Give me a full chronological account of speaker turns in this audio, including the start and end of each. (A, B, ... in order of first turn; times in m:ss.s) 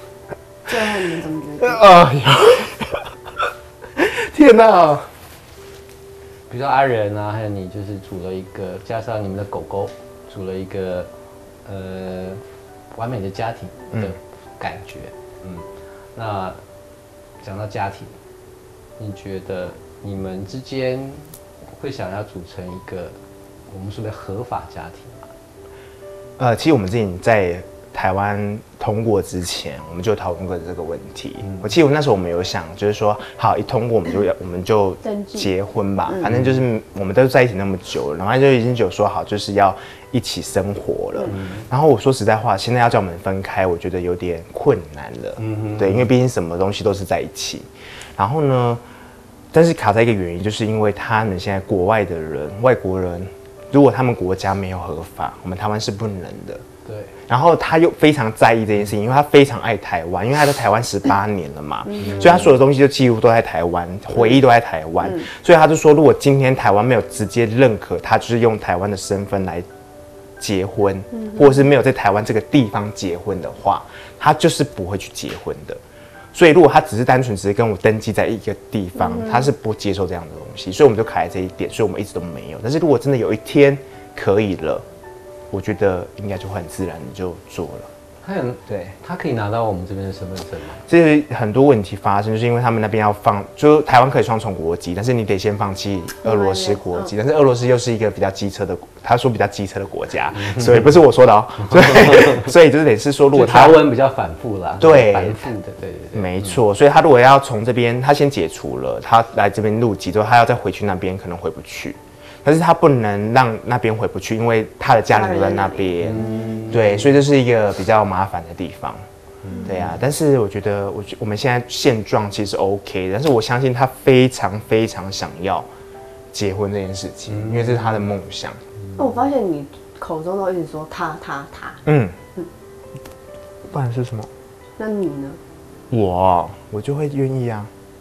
0:00.7-0:01.8 A
0:01.6-0:03.0 B
0:04.0-0:05.1 B
0:06.5-0:11.1 C
0:11.6-0:12.4 C
0:12.9-0:16.6 C
0:17.4-0:18.2 C
0:19.0-0:23.2 C
0:23.7-0:25.2 C
0:26.4-0:47.6 B
0:35.0-0:35.5 A
0:36.2-0:36.6 C
0:41.3-0:41.6 C
0:45.4-0:46.1 C
0:48.2-0:48.8 B
0:49.5-0:56.6 B
0:56.8-0:57.1 C
0:57.3-1:09.6 B
1:01.8-1:02.3 A
1:02.0-1:02.4 C
1:10.4-1:15.8 B
1:11.1-1:11.6 A
1:16.3-1:24.8 B
1:19.0-1:19.5 A
1:25.5-1:27.9 B
1:28.2-1:30.8 C
1:28.7-1:28.9 B
1:30.9-1:43.8 B
1:36.2-1:37.1 A
1:40.3-1:40.9 C
1:41.7-1:42.5 C
1:43.3-1:46.5 C
1:44.8-1:45.4 B
1:46.1-1:59.0 B
1:55.1-1:56.6 A
1:56.0-1:57.1 C
1:59.4-1:59.9 C
1:59.5-1:59.9 A
1:59.6-2:05.7 B
2:06.3-2:08.6 B
2:07.3-2:08.0 C
2:09.0-2:11.8 A
2:11.8-2:12.2 B
2:13.7-2:14.3 B
2:14.8-2:15.4 A
2:15.9-2:17.7 B